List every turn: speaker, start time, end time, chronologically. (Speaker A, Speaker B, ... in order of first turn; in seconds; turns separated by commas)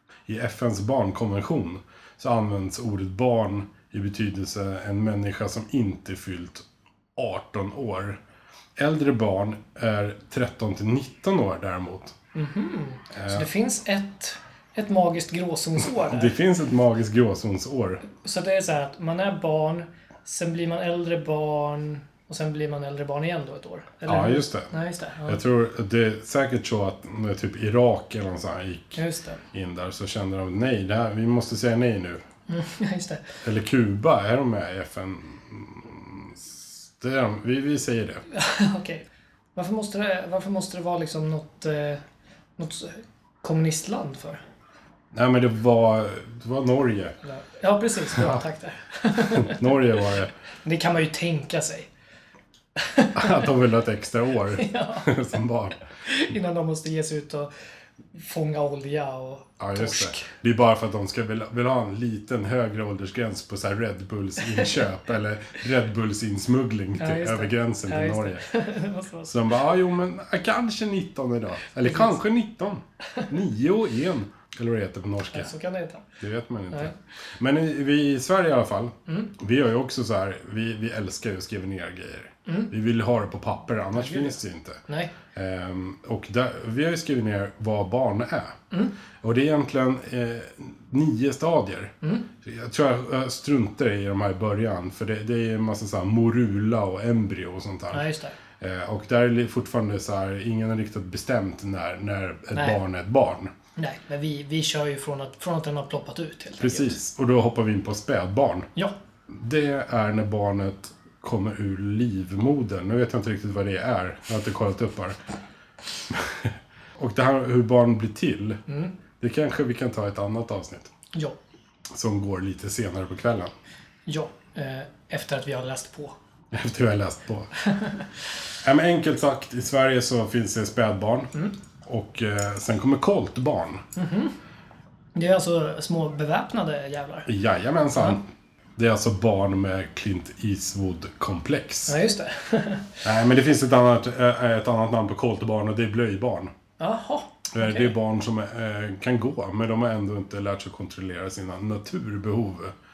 Speaker A: 0.3-6.6, Speaker A: 7.2-8.2, Speaker A: 8.8-12.1, Speaker B: 12.3-16.3, Speaker A: 13.1-13.5, Speaker A: 16.0-18.0, Speaker B: 18.1-25.4, Speaker A: 24.1-24.7, Speaker A: 25.2-32.2, Speaker B: 28.9-29.4, Speaker B: 32.5-33.3, Speaker A: 33.4-38.2, Speaker B: 38.3-39.0, Speaker B: 39.5-42.0, Speaker B: 42.6-44.4, Speaker A: 45.1-47.1, Speaker B: 47.2-50.0, Speaker A: 48.1-48.4, Speaker A: 49.2-50.3, Speaker B: 50.6-51.9, Speaker B: 52.8-53.5, Speaker A: 53.1-55.8, Speaker B: 54.5-55.1, Speaker B: 56.0-57.5, Speaker B: 58.1-60.3, Speaker A: 59.6-68.4, Speaker B: 67.0-69.5, Speaker A: 69.3-75.5, Speaker B: 71.8-72.2, Speaker B: 75.3-76.0, Speaker A: 76.2-84.8, Speaker B: 79.1-79.3, Speaker B: 82.5-82.7, Speaker B: 83.9-85.1, Speaker A: 85.3-88.6, Speaker A: 89.2-103.5, Speaker B: 92.0-92.3, Speaker B: 97.9-98.3, Speaker B: 103.8-106.9, Speaker A: 106.6-108.7, Speaker A: 109.3-115.2, Speaker A: 116.1-118.6, Speaker B: 118.7-118.9, Speaker A: 119.2-120.9, Speaker A: 121.9-123.5, Speaker B: 124.1-126.1, Speaker A: 126.5-127.5, Speaker B: 127.7-128.1, Speaker A: 128.6-133.8, Speaker B: 133.9-134.3, Speaker B: 135.1-137.3, Speaker A: 137.2-142.0, Speaker B: 141.9-143.0, Speaker A: 143.0-146.5, Speaker B: 146.8-147.9, Speaker A: 147.5-152.7